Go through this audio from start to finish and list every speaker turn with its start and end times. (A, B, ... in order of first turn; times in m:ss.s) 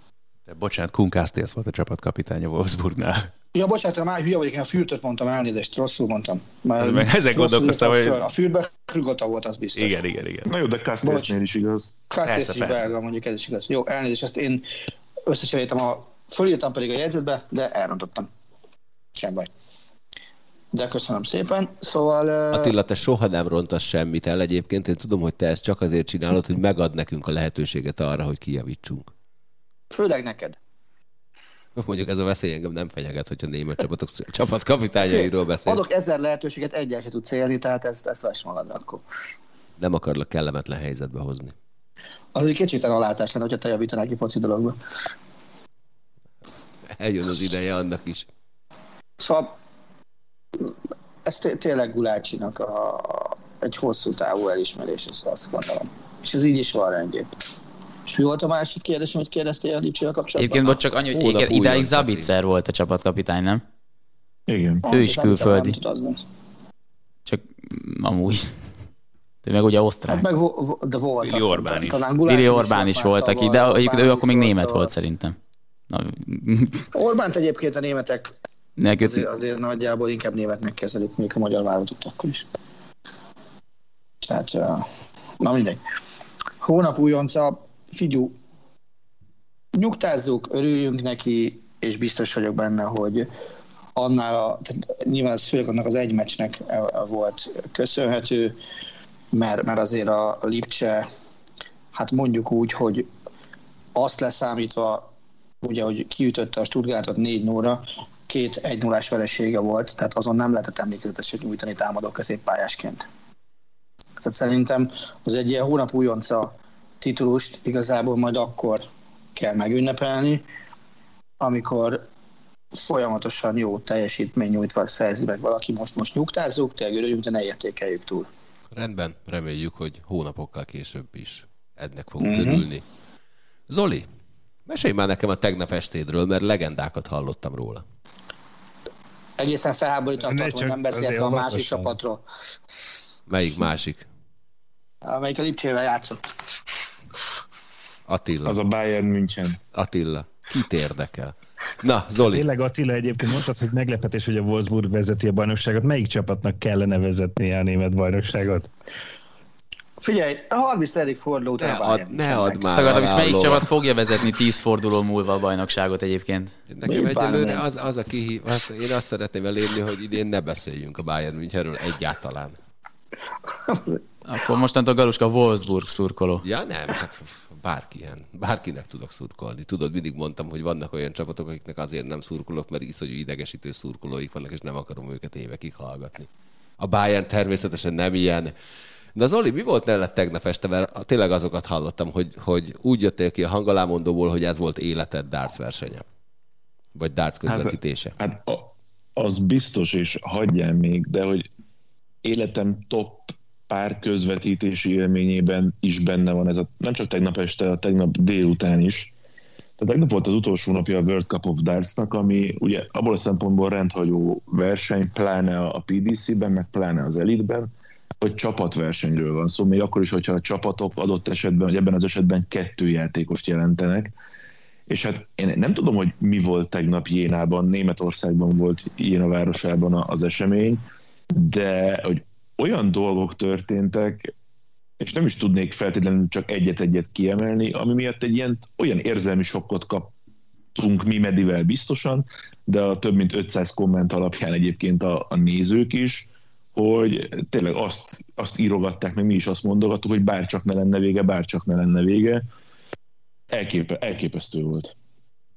0:00.5-0:03.3 A
0:03.5-0:10.0 B
0:06.8-0:08.2 A
0:09.8-0:10.5 A
0:10.5-0:11.9 C
0:11.0-0:11.3 B
0:12.1-0:14.7 B
0:12.3-0:12.9 A
0:15.3-0:18.3 B
0:19.2-0:19.5 B
0:20.7-0:22.7 B
0:22.5-0:29.1 D
0:29.9-0:30.6 B
0:31.8-0:35.8 D
0:35.0-0:39.0 B
0:39.8-0:41.6 D
0:42.4-0:44.8 B
0:46.9-0:48.3 D
0:49.2-0:49.5 B
0:50.6-0:57.3 B
0:58.1-1:00.7 B
1:00.4-1:03.6 E
1:00.7-1:02.3 D
1:04.5-1:04.8 C
1:04.8-1:06.2 B
1:04.9-1:05.8 E
1:07.3-1:08.5 E
1:09.4-1:10.3 E
1:10.1-1:14.9 B
1:11.2-1:12.0 A
1:12.3-1:15.4 E
1:15.9-1:16.9 E
1:16.9-1:18.3 B
1:18.8-1:19.3 E
1:19.0-1:22.5 B
1:24.2-1:24.9 B
1:25.4-1:25.8 B
1:26.6-1:28.4 B
1:29.8-1:33.3 B
1:34.0-1:38.6 B
1:39.3-1:41.1 B
1:41.9-1:43.1 B
1:44.0-1:45.1 B
1:45.6-1:53.0 B
1:54.2-1:58.8 B
1:59.4-2:00.4 B
2:01.4-2:02.0 B
2:02.7-2:08.3 B
2:08.7-2:12.8 D
2:12.2-2:12.6 B
2:13.7-2:14.1 D
2:14.7-2:17.8 D
2:19.4-2:22.2 B
2:20.2-2:22.0 F
2:23.3-2:24.0 D
2:25.0-2:26.2 B
2:28.1-2:28.6 D
2:28.4-2:29.6 C
2:29.7-2:32.5 D
2:32.2-2:38.7 F
2:40.0-2:43.0 B
2:41.6-2:43.7 D
2:42.7-2:46.5 E
2:46.7-2:52.6 D
2:46.9-2:47.6 B
2:53.5-2:54.0 B
2:54.2-2:56.4 E
2:56.4-3:06.3 D
3:06.8-3:08.5 D
3:09.2-3:16.0 D
3:17.0-3:18.2 D
3:17.5-3:21.5 C
3:22.2-3:29.1 C
3:29.8-3:37.7 C
3:38.2-3:44.1 C
3:44.9-3:54.3 C
3:55.0-4:00.1 C
4:00.8-4:12.4 C
4:13.5-4:15.0 C